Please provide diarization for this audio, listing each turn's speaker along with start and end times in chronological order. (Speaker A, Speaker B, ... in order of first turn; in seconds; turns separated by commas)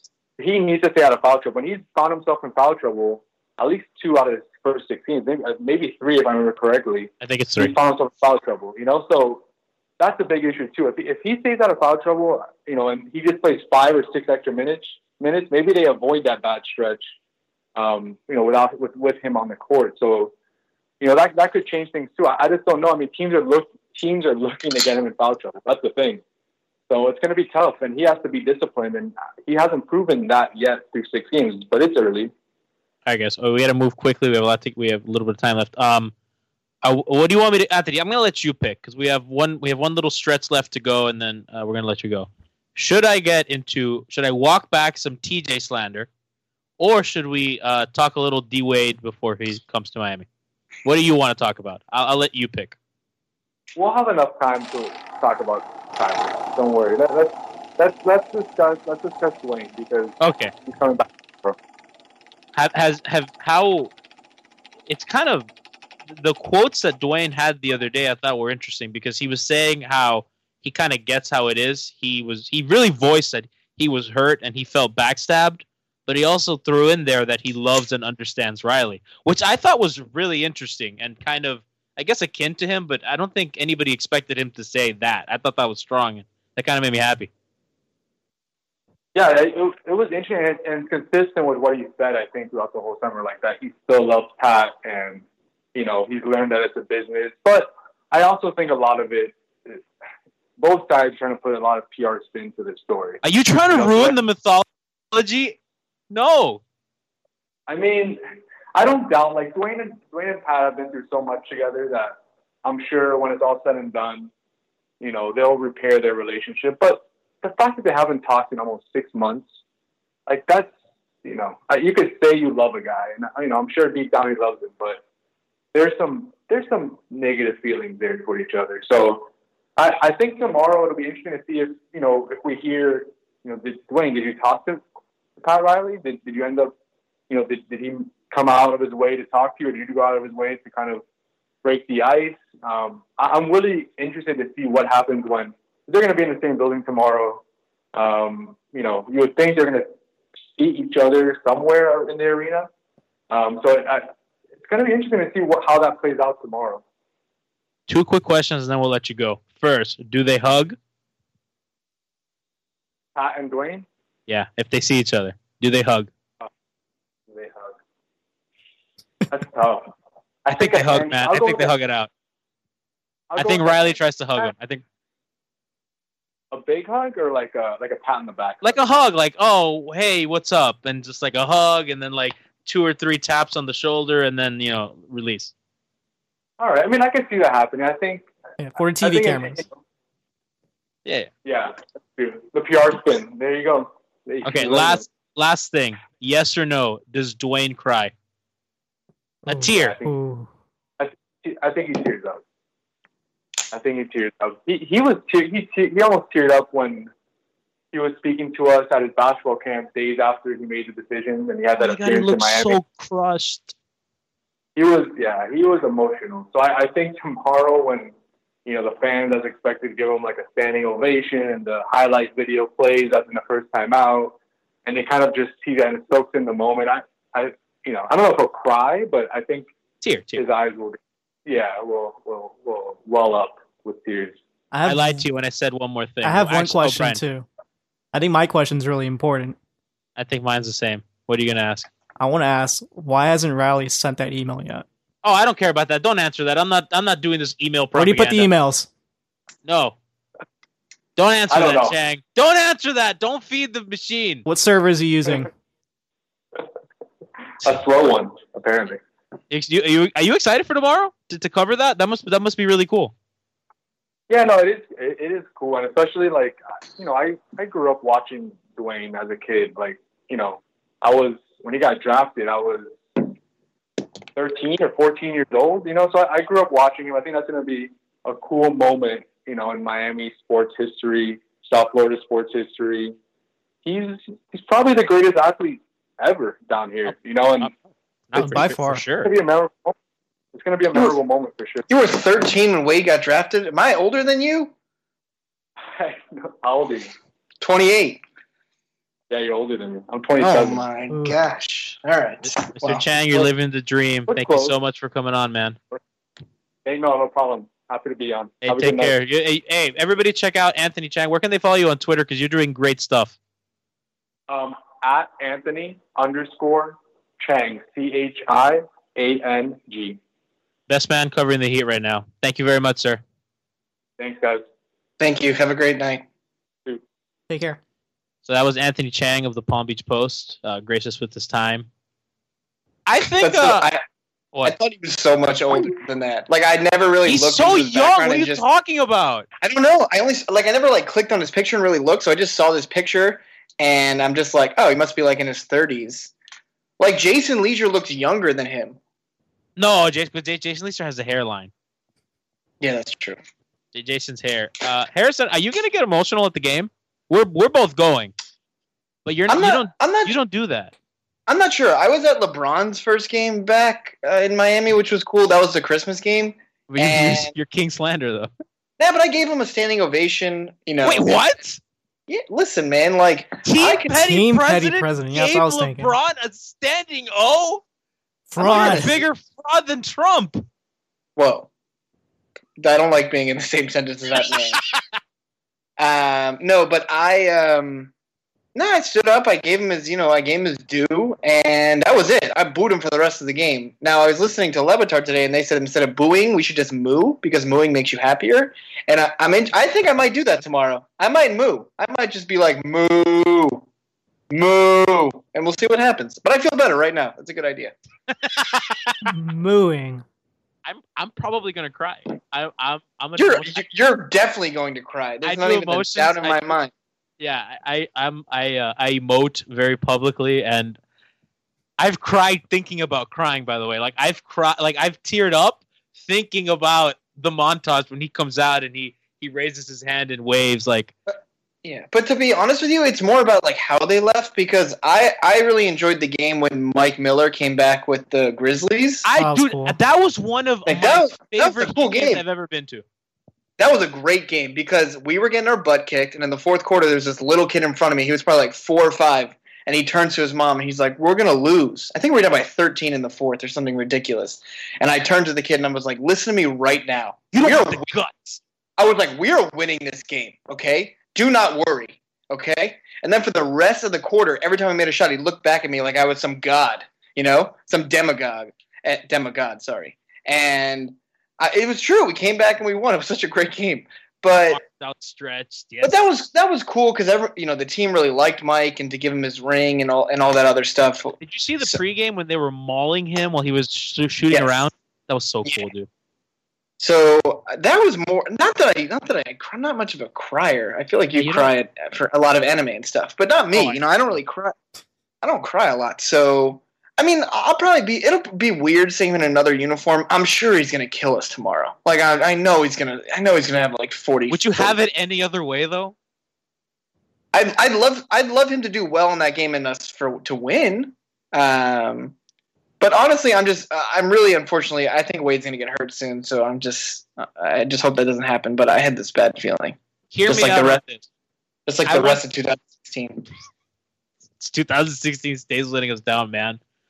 Speaker A: 0.4-9.4, Speaker B: 7.2-7.8, Speaker A: 10.0-17.0, Speaker A: 17.8-20.3, Speaker A: 21.0-26.2, Speaker A: 26.9-32.3, Speaker B: 33.1-36.1, Speaker B: 36.8-46.1, Speaker B: 46.8-50.3, Speaker B: 50.8-52.8, Speaker A: 53.8-61.6, Speaker B: 60.2-60.5, Speaker B: 62.5-63.9, Speaker B: 64.9-65.5, Speaker B: 66.1-87.3, Speaker A: 89.1-99.8, Speaker A: 100.6-104.2, Speaker B: 103.2-105.6, Speaker B: 106.1-106.6, Speaker A: 107.7-108.2, Speaker A: 108.8-114.3, Speaker A: 115.0-119.5, Speaker A: 120.3-120.7, Speaker A: 121.2-125.0, Speaker A: 125.7-134.8, Speaker A: 135.4-136.7, Speaker A: 137.3-141.0, Speaker A: 141.6-147.4, Speaker A: 147.9-149.9, Speaker A: 150.6-152.7, Speaker A: 153.3-154.1, Speaker A: 154.6-156.8, Speaker B: 157.9-160.8, Speaker A: 163.1-163.9, Speaker B: 164.3-166.1, Speaker A: 167.3-167.8, Speaker A: 169.3-169.9, Speaker A: 170.4-171.7, Speaker B: 170.6-172.1, Speaker A: 173.3-174.5, Speaker B: 173.4-174.8, Speaker A: 176.5-178.8, Speaker B: 178.6-185.5, Speaker A: 186.6-188.3, Speaker C: 188.6-189.6, Speaker A: 189.0-189.7, Speaker A: 191.4-195.1, Speaker B: 194.4-198.1, Speaker B: 199.5-199.9, Speaker C: 199.5-200.5, Speaker A: 199.7-200.1, Speaker A: 201.0-202.4, Speaker A: 203.7-207.1, Speaker A: 207.9-212.8, Speaker B: 211.8-213.8, Speaker A: 214.8-218.1, Speaker A: 218.7-229.7, Speaker B: 230.0-230.4, Speaker A: 230.4-234.4, Speaker C: 234.7-235.3, Speaker B: 234.8-237.2, Speaker C: 236.2-237.5, Speaker C: 238.1-239.6, Speaker B: 240.2-241.9, Speaker C: 242.2-244.8, Speaker B: 245.2-248.5, Speaker C: 247.9-248.9, Speaker B: 249.6-250.0, Speaker B: 251.2-254.4, Speaker A: 251.5-251.9, Speaker C: 254.4-255.5, Speaker A: 257.6-259.0, Speaker B: 259.5-263.1, Speaker A: 264.3-273.3, Speaker A: 274.4-283.1, Speaker A: 283.9-287.7, Speaker B: 288.3-289.3, Speaker C: 288.4-289.0, Speaker A: 289.2-289.9, Speaker A: 290.5-291.9, Speaker D: 291.9-294.7, Speaker A: 295.9-297.1, Speaker D: 297.6-298.2, Speaker A: 299.3-300.8, Speaker D: 300.4-303.4, Speaker C: 301.1-301.4, Speaker B: 302.4-305.8, Speaker A: 304.3-304.8, Speaker A: 306.9-309.1, Speaker B: 308.6-313.4, Speaker A: 314.5-320.2, Speaker B: 320.9-323.2, Speaker A: 324.2-324.6, Speaker D: 325.2-326.2, Speaker C: 327.5-327.8, Speaker B: 328.4-331.9, Speaker B: 333.1-333.9, Speaker D: 333.4-334.0, Speaker D: 334.6-338.6, Speaker B: 337.3-339.5, Speaker D: 339.6-346.3, Speaker D: 347.0-349.0, Speaker B: 349.8-351.7, Speaker D: 352.8-353.4, Speaker B: 353.9-358.3, Speaker B: 359.2-360.9, Speaker D: 359.5-360.4, Speaker D: 361.5-367.5, Speaker B: 366.9-368.5, Speaker D: 369.0-371.5, Speaker B: 371.0-371.8, Speaker D: 372.3-374.3, Speaker B: 373.6-377.8, Speaker C: 374.1-376.1, Speaker C: 378.5-379.2, Speaker D: 378.6-379.2, Speaker B: 378.6-380.6, Speaker D: 381.4-381.7, Speaker D: 382.8-384.8, Speaker B: 384.5-385.2, Speaker D: 386.0-388.1, Speaker D: 388.8-403.9, Speaker D: 404.5-407.9, Speaker B: 408.4-409.3, Speaker C: 409.2-410.2, Speaker B: 410.9-413.9, Speaker D: 413.4-416.9, Speaker B: 415.4-416.8, Speaker B: 417.4-421.0, Speaker B: 422.0-431.1, Speaker D: 431.8-439.3, Speaker B: 439.2-443.0, Speaker C: 439.4-439.9, Speaker D: 440.9-442.4, Speaker D: 443.8-458.1, Speaker B: 457.5-458.6, Speaker D: 459.0-474.8, Speaker B: 474.6-476.2, Speaker D: 476.0-482.0, Speaker B: 481.4-486.1, Speaker D: 484.5-484.9, Speaker D: 487.0-494.8, Speaker B: 491.3-491.7, Speaker B: 493.7-494.4, Speaker D: 495.4-504.9, Speaker B: 504.5-506.1, Speaker D: 507.5-512.4, Speaker D: 513.0-521.0, Speaker B: 520.3-521.3, Speaker D: 521.9-523.5, Speaker B: 522.1-522.4, Speaker B: 524.6-526.8